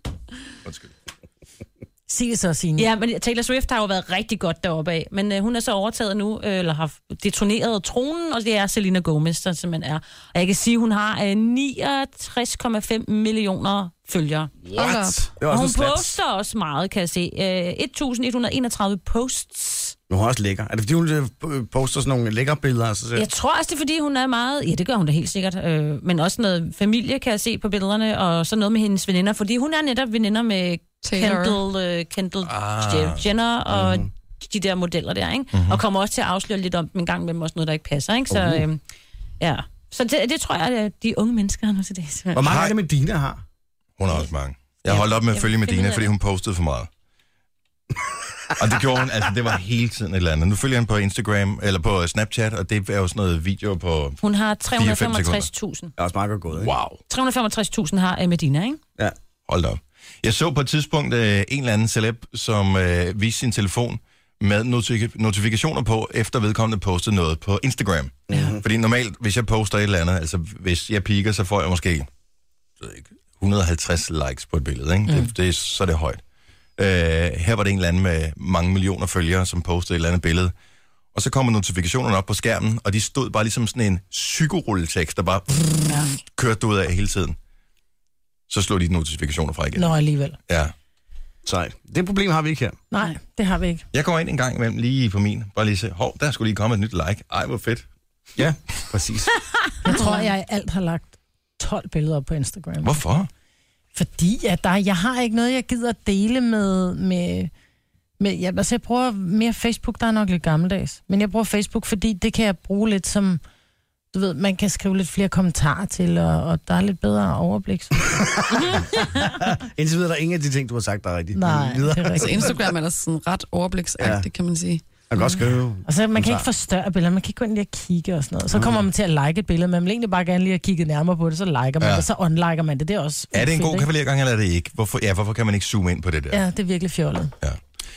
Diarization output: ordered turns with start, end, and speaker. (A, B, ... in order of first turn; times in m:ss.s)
0:00.6-0:00.9 A
0:02.1-0:02.9 B
0:02.8-0:14.5 C
0:14.7-0:15.3 A
0:14.8-0:15.4 D
0:15.4-0:16.2 E
0:15.4-0:20.0 C
0:20.1-0:23.3 E
0:23.2-0:38.8 C
0:31.0-0:31.6 D
0:32.5-0:33.2 A
0:33.7-0:34.1 E
0:35.5-0:35.8 A
0:38.3-0:38.7 E
0:39.4-0:42.4 C
0:42.3-0:43.4 E
0:42.4-0:42.8 A
0:44.0-0:46.9 A
0:44.9-0:46.1 C
0:48.6-0:54.2 A
0:54.2-0:55.9 C
0:54.7-0:55.5 A
0:56.0-0:56.7 E
0:56.6-0:57.0 A
0:57.1-0:58.8 C
0:59.5-1:12.1 A
1:08.3-1:08.6 E
1:12.8-1:16.2 A
1:16.8-1:20.5 A
1:21.1-1:27.4 A
1:28.5-1:29.9 A
1:29.8-1:30.4 B
1:30.5-1:30.7 A
1:31.4-1:32.8 E
1:32.9-1:33.8 B
1:33.9-1:37.9 A
1:38.4-1:39.3 E
1:39.8-1:43.0 B
1:42.8-1:43.3 A
1:44.0-1:47.5 B
1:48.2-1:53.4 B
1:54.1-1:58.3 B
1:58.2-1:58.8 E
1:59.4-2:02.8 E
2:01.3-2:02.5 B
2:02.2-2:04.8 D
2:04.0-2:04.3 E
2:05.1-2:06.5 E
2:05.9-2:13.9 B
2:08.5-2:08.8 E
2:11.8-2:12.1 A
2:13.3-2:16.4 A
2:16.3-2:17.3 B